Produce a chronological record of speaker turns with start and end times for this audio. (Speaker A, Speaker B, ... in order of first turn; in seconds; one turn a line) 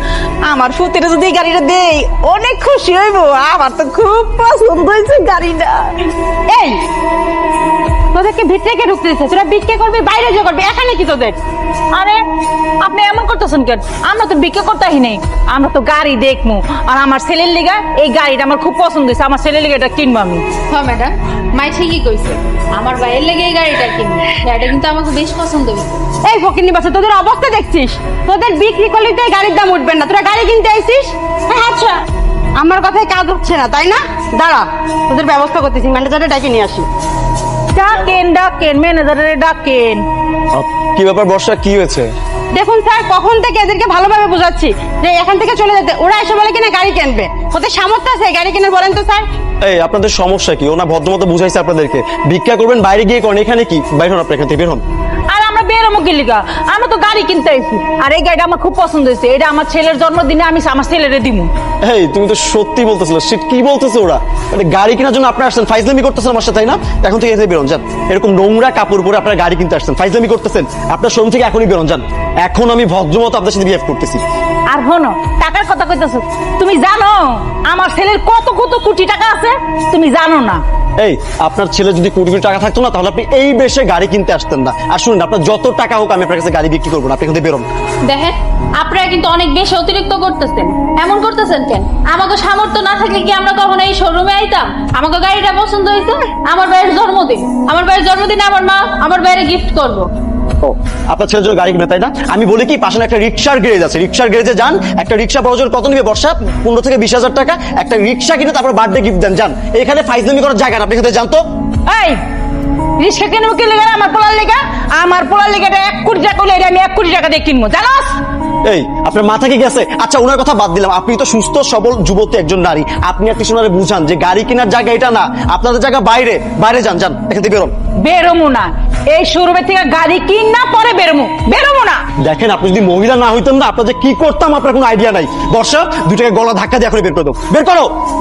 Speaker A: 0.5-5.9
Speaker B: 6.5-6.8
Speaker B: 8.1-11.4
Speaker A: 11.9-12.2
Speaker A: 12.8-20.4
Speaker C: 20.7-26.0
Speaker B: 26.2-32.0
Speaker B: 32.6-36.9
Speaker A: 37.7-40.0
Speaker D: 40.5-42.1
Speaker B: 42.5-49.2
Speaker D: 49.6-54.8
Speaker A: 55.3-61.5
Speaker D: 61.8-74.2
Speaker A: 74.7-80.6
Speaker D: 81.0-87.7
Speaker C: 88.0-100.1
Speaker D: 100.6-111.4
Speaker A: 111.9-112.2
Speaker A: 113.0-118.2
Speaker D: 118.7-127.7
Speaker A: 128.0-132.0
Speaker D: 132.2-137.9